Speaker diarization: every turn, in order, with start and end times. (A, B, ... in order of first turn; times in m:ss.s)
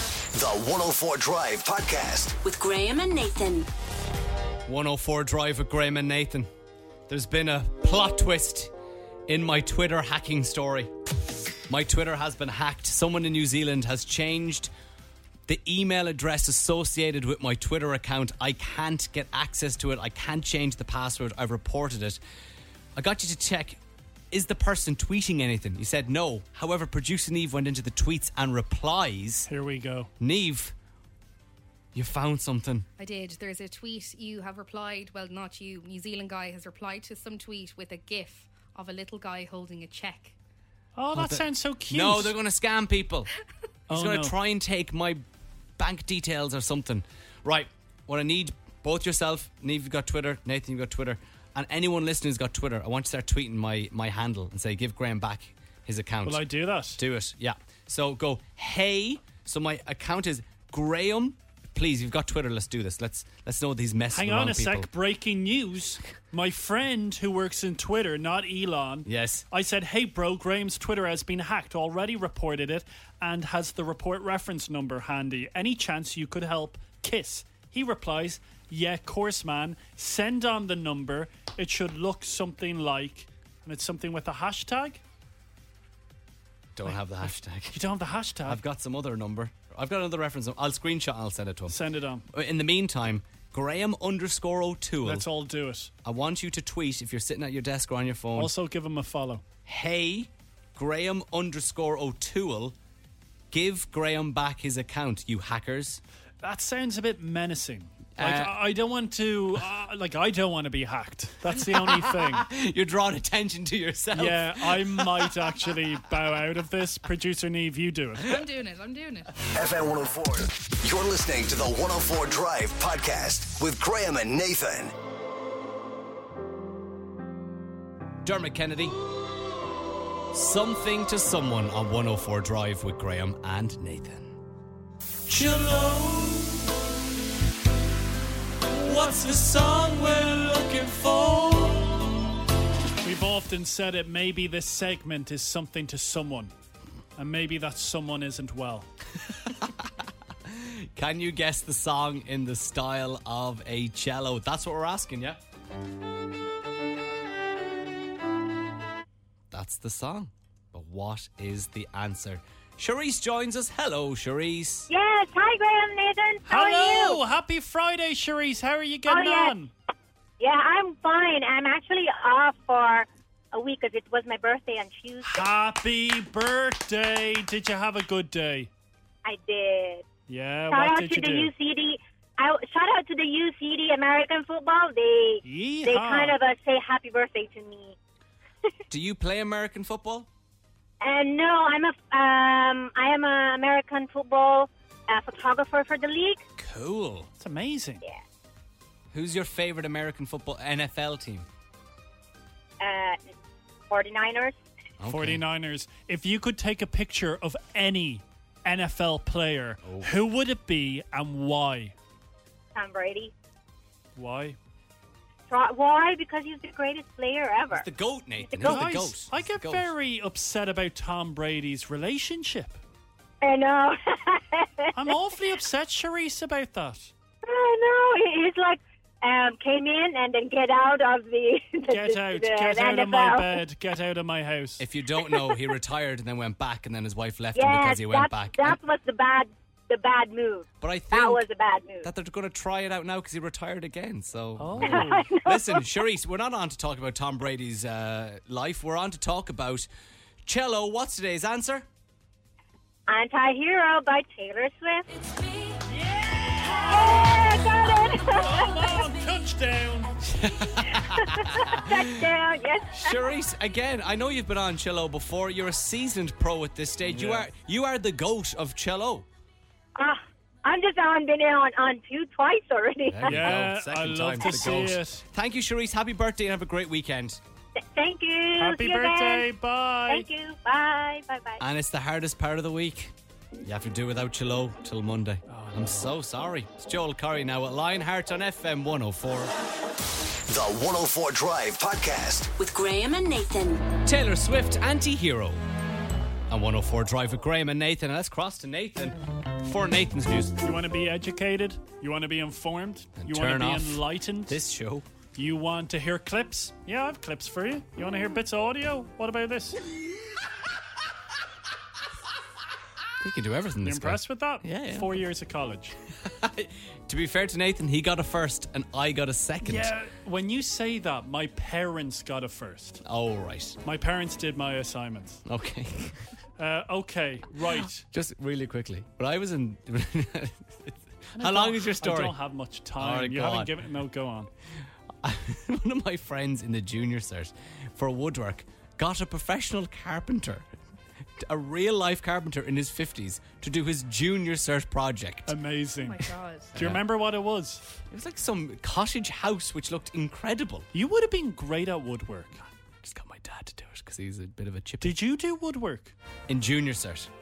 0:00.3-0:02.4 A
0:02.4-0:03.7 B
0:04.6-0:06.5 C
0:07.1-0:08.7 C
0:09.3-0:10.9 C
0:11.7-0:14.7 C
0:15.5-0:22.2 C
0:23.0-0:23.8 C
0:24.3-0:29.5 C
0:29.5-0:30.1 D
0:30.2-0:30.7 C
0:31.9-0:32.8 C
0:33.0-0:40.3 E
0:41.0-0:42.4 D
0:41.1-0:43.3 C
0:43.9-0:44.3 D
0:43.9-0:45.2 C
0:45.8-1:04.9 C
0:56.2-0:57.0 D
1:04.1-1:25.0 D
1:09.0-1:09.4 C
1:26.7-1:27.8 C
1:27.7-1:28.6 D
1:28.4-1:31.8 C
1:31.7-1:32.2 D
1:32.3-1:35.3 C
1:35.0-1:35.9 D
1:36.0-1:38.5 C
1:38.3-1:39.4 D
1:39.6-1:42.7 C
1:43.5-1:46.0 C
1:46.4-1:52.5 D
1:48.2-1:48.6 C
1:51.6-1:55.5 C
1:54.1-1:58.4 D
1:58.2-1:59.3 E
1:59.5-2:04.9 A
2:08.2-2:09.0 C
2:10.3-2:14.4 C
2:15.3-2:16.8 C
2:18.7-2:22.1 C
2:23.0-2:26.5 D
2:27.2-2:28.9 D
2:29.3-2:29.9 C
2:30.4-2:35.4 C
2:39.5-2:44.9 C
2:44.9-2:47.2 F
2:46.4-2:49.7 D
2:49.1-2:49.6 F
2:50.4-2:55.5 F
2:55.3-2:58.7 D
2:59.2-3:00.0 F
3:00.3-3:01.5 D
3:00.7-3:08.0 F
3:05.4-3:06.4 D
3:08.9-3:10.3 C
3:11.0-3:16.4 F
3:16.6-3:17.3 C
3:17.3-3:18.0 D
3:19.1-3:21.5 C
3:22.8-3:23.2 F
3:23.9-3:24.6 F
3:25.0-3:25.4 C
3:25.1-3:31.9 D
3:29.8-3:30.1 C
3:32.7-3:33.3 F
3:34.2-3:34.6 D
3:35.5-3:37.8 F
3:37.7-3:39.9 C
3:38.4-3:38.8 F
3:38.6-3:42.8 D
3:43.4-3:44.9 F
3:44.9-3:47.1 D
3:47.4-3:53.6 F
3:51.9-3:54.8 D
3:54.8-3:58.8 C
3:57.5-4:02.1 F
4:00.8-4:01.5 C
4:02.0-4:09.9 C
4:04.6-4:05.3 D
4:04.9-4:05.9 F
4:10.4-4:11.8 C
4:13.1-4:15.0 F
4:15.9-4:17.5 D
4:16.6-4:18.7 F
4:18.3-4:20.2 D
4:20.2-4:22.2 C
4:21.2-4:23.3 F
4:22.9-4:29.2 C
4:27.0-4:27.5 D
4:30.0-4:33.4 F
4:33.1-4:37.4 C
4:33.2-4:35.2 D
4:37.9-4:39.5 F
4:38.6-4:40.3 D
4:40.1-4:41.6 F
4:41.6-4:49.5 C
4:45.5-4:45.9 D
4:50.5-4:52.5 A
4:52.6-4:53.9 B
4:54.0-4:55.6 C
4:56.5-5:00.6 C
5:00.6-5:04.6 D
5:03.2-5:05.0 C
5:05.3-5:09.8 D
5:13.2-5:15.2 C
5:13.8-5:15.9 D
5:16.2-5:19.9 C
5:19.6-5:23.0 D
5:23.0-5:23.8 C
5:23.8-5:25.4 D
5:25.4-5:26.2 C
5:26.6-5:28.0 D
5:28.0-5:32.4 C
5:31.4-5:34.5 D
5:33.0-5:33.7 C
5:35.2-5:40.7 C
5:41.4-5:45.6 C
5:45.5-5:47.8 D
5:46.0-5:46.7 E
5:46.7-5:47.0 C
5:48.1-5:50.9 C
5:50.9-5:52.7 D
5:53.0-5:55.2 C
5:55.0-5:56.1 D
5:56.5-5:57.3 C